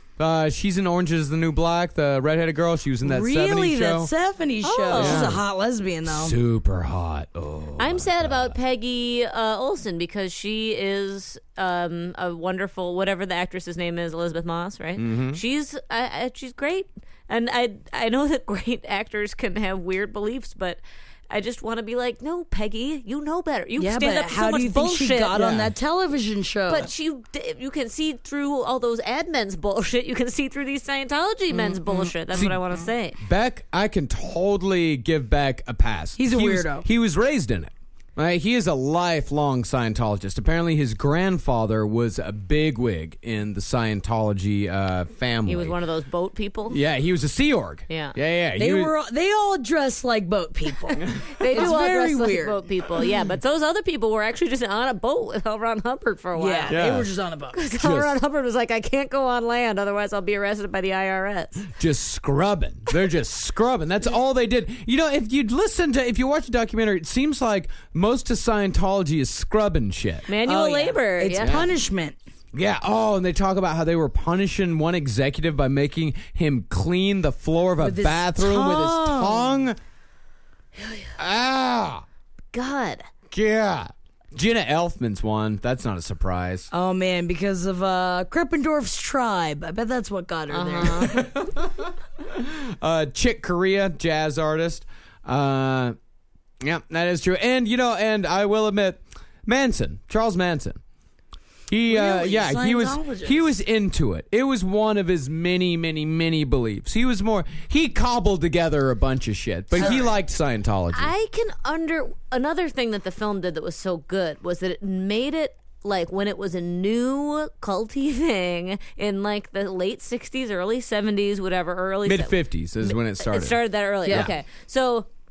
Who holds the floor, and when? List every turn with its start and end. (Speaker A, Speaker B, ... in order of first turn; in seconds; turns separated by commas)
Speaker A: 0.2-4.1, Speaker B: 3.0-6.3, Speaker C: 4.6-5.3, Speaker A: 4.9-5.4, Speaker A: 6.1-8.6, Speaker C: 7.8-25.3, Speaker A: 15.0-15.4, Speaker B: 23.8-26.9, Speaker A: 25.3-25.7, Speaker C: 26.7-33.2, Speaker B: 31.5-32.1, Speaker A: 32.3-32.6, Speaker A: 33.2-45.8, Speaker B: 36.2-36.9, Speaker C: 45.5-46.8, Speaker A: 46.7-48.9, Speaker C: 47.9-48.1, Speaker B: 48.5-52.6, Speaker C: 51.3-56.8, Speaker B: 56.4-57.6, Speaker A: 56.7-57.1, Speaker C: 57.5-61.7, Speaker A: 57.8-58.1, Speaker A: 61.7-70.3, Speaker C: 70.3-71.6, Speaker B: 70.4-72.2, Speaker A: 71.4-71.7, Speaker A: 72.5-79.8, Speaker B: 77.8-79.6, Speaker C: 80.8-81.1, Speaker A: 81.2-82.0, Speaker C: 82.5-83.1, Speaker A: 83.3-86.7, Speaker B: 86.7-91.3, Speaker C: 90.5-91.2, Speaker A: 91.2-96.0, Speaker A: 96.6-100.8, Speaker A: 101.7-111.1, Speaker B: 101.9-103.5, Speaker B: 109.7-110.1, Speaker C: 110.9-125.1, Speaker A: 122.0-124.3